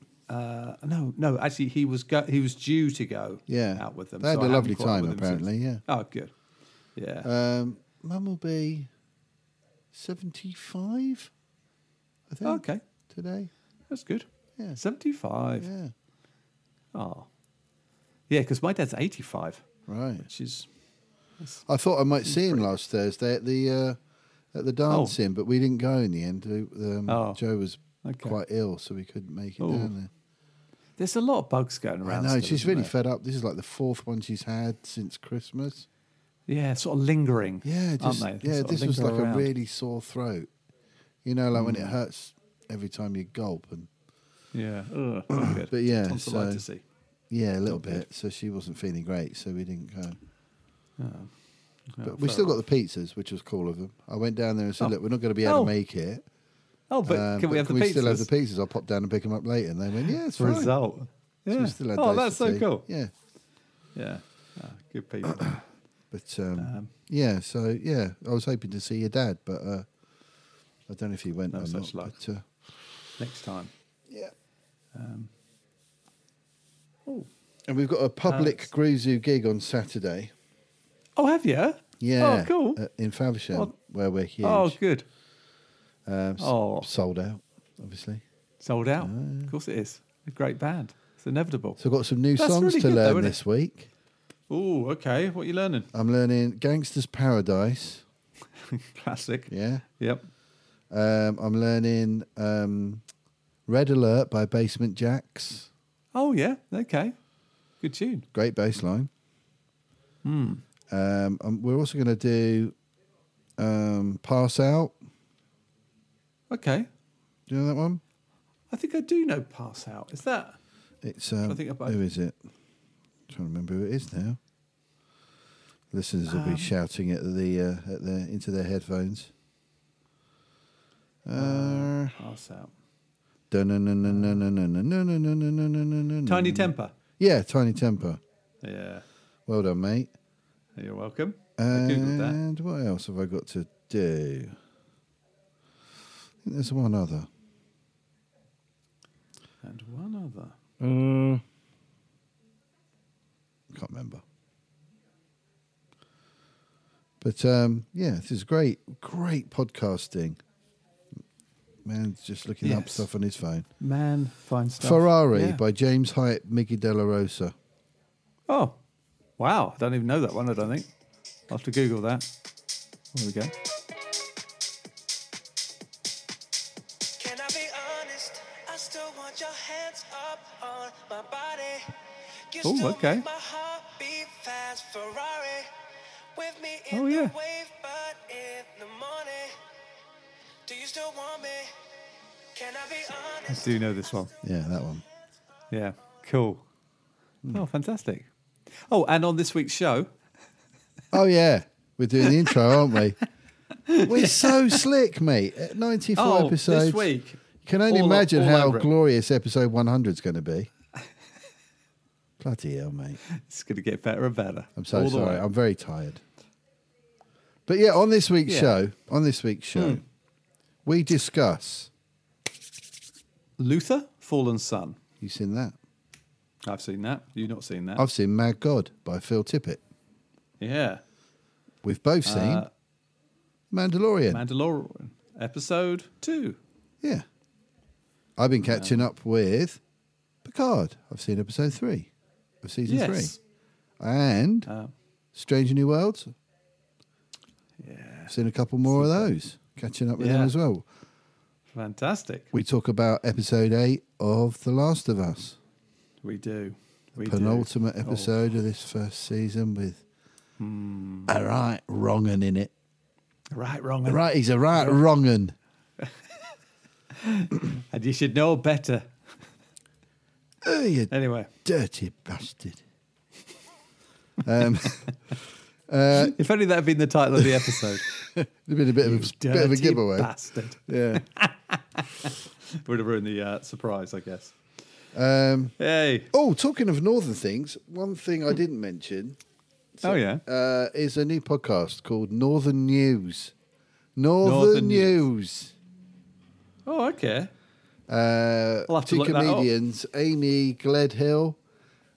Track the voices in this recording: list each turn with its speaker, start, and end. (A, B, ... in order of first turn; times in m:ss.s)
0:00.3-0:06.3 A
0:03.5-0:05.8 B
0:07.0-0:07.3 A
0:07.2-0:08.9 B
0:09.9-0:11.3 B
0:12.3-0:13.5 B
0:12.4-0:12.8 A
0:13.9-0:15.7 A
0:15.6-0:15.9 B
0:16.9-0:17.3 A
0:18.3-0:19.7 A
0:19.9-0:20.3 B
0:20.3-0:20.7 A
0:21.7-0:24.0 B
0:22.2-0:22.6 A
0:24.5-0:30.1 B
0:24.9-0:25.2 A
0:27.1-0:27.4 A
0:28.0-0:28.4 A
0:29.6-0:29.9 A
0:31.0-0:32.9 A
0:32.0-0:35.9 B
0:36.5-0:39.5 A
0:37.6-0:40.5 B
0:41.2-0:43.9 B
0:41.6-0:41.9 A
0:44.5-0:46.8 A
0:45.3-0:46.6 B
0:47.3-0:50.2 B
0:47.7-0:48.0 A
0:51.0-0:51.3 A
0:51.9-0:52.6 A
0:52.0-0:56.2 B
0:54.8-0:55.7 A
0:56.9-0:58.3 A
0:57.1-1:00.8 B
1:00.3-1:02.9 A
1:01.5-1:03.1 B
1:04.0-1:05.6 A
1:06.1-1:09.9 B
1:06.6-1:06.9 A
1:10.9-1:12.5 B
1:11.5-1:12.2 A
1:13.2-1:13.7 A
1:14.9-1:15.3 A
1:17.7-1:20.3 B
1:18.3-1:18.7 A
1:21.2-1:22.8 A
1:22.0-1:24.8 B
1:24.4-1:25.0 A
1:26.1-1:28.2 B
1:26.4-1:26.9 A
1:28.6-1:31.8 A
1:29.0-1:29.5 B
1:31.8-1:33.9 B
1:32.4-1:33.4 A
1:34.5-1:35.9 A
1:35.9-1:38.0 B
1:38.7-1:40.3 A
1:39.5-1:39.8 B
1:40.9-1:43.0 B
1:43.7-1:45.7 B
1:46.1-1:47.2 A
1:47.8-1:48.2 A
1:48.3-1:49.1 B
1:50.2-1:50.6 A
1:50.9-1:52.8 B
1:53.6-1:55.0 B
1:56.5-1:56.9 A
1:57.5-1:58.0 B
1:58.7-2:00.6 A
2:01.0-2:02.4 B
2:01.4-2:02.0 A
2:03.3-2:04.4 B
2:05.9-2:09.3 B
2:06.3-2:06.7 A
2:11.3-2:12.2 B
2:11.4-2:12.7 A
2:13.5-2:18.2 B
2:14.1-2:14.4 A
2:16.2-2:17.0 A
2:18.6-2:19.0 A
2:19.5-2:20.1 B
2:20.8-2:22.4 A
2:21.6-2:24.6 B
2:26.4-2:27.3 B
2:29.6-2:30.6 A
2:30.8-2:31.4 B
2:33.7-2:34.2 B
2:37.2-2:40.4 B
2:41.8-2:43.7 B
2:42.6-2:43.1 A
2:43.8-2:45.6 A
2:44.8-2:47.5 B
2:48.5-2:48.8 A
2:49.4-2:50.9 A
2:51.5-2:52.3 A
2:53.1-2:53.5 A
2:57.2-3:02.0 C
3:02.5-3:05.7 C
3:02.6-3:03.3 A
3:06.4-3:09.6 C
3:06.9-3:07.3 A
3:10.7-3:11.8 C
3:12.5-3:14.2 C
3:13.5-3:14.3 A
3:14.4-3:15.0 B
3:15.7-3:16.6 A
3:17.5-3:18.3 A
3:18.9-3:20.1 A
3:21.1-3:23.2 B
3:23.9-3:24.7 A
3:24.0-3:27.1 B
3:26.2-3:28.9 A
3:27.6-3:30.7 B
3:32.4-3:33.2 B
3:33.3-3:35.5 A
3:34.8-3:36.2 B
3:37.7-3:40.0 B
3:38.5-3:38.8 A
3:40.8-3:41.9 B
3:43.6-3:45.0 A
3:45.2-3:45.8 B
3:46.6-3:48.0 A
3:48.0-3:49.8 B
3:50.6-3:51.0 A
3:51.8-3:52.7 B
3:52.2-3:52.7 A
3:53.7-3:54.4 B
3:54.3-3:56.6 A
3:58.4-3:59.8 B
3:58.7-3:59.0 A
4:00.4-4:02.1 B
4:02.6-4:03.4 B
4:02.9-4:03.4 A
4:04.0-4:04.7 B
4:04.7-4:04.9 A
4:05.3-4:06.3 B
4:07.8-4:08.4 A
4:08.3-4:10.9 B
4:08.9-4:09.3 A
4:10.2-4:10.6 A
4:11.7-4:12.5 A
4:12.5-4:15.6 B
4:16.2-4:18.3 A
4:17.2-4:20.0 B
4:20.6-4:21.3 A
4:21.3-4:22.7 B
4:23.5-4:24.2 A
4:24.0-4:25.6 B
4:24.8-4:25.0 A
4:27.1-4:29.1 A
4:30.6-4:31.1 B
4:31.1-4:31.5 A
4:31.6-4:32.8 B
4:34.4-4:35.0 B
4:35.9-4:36.4 B
4:36.1-4:38.1 A
4:37.4-4:40.3 B
4:39.0-4:44.6 A
4:40.9-4:41.3 B
4:45.1-4:45.8 B
4:45.8-4:46.3 A
4:46.3-4:49.4 B
4:50.0-4:53.5 B
4:50.0-4:50.4 A
4:54.2-4:55.7 B
4:54.4-4:55.2 A
4:56.9-4:57.5 A
4:58.1-5:01.6 B
4:58.9-4:59.7 A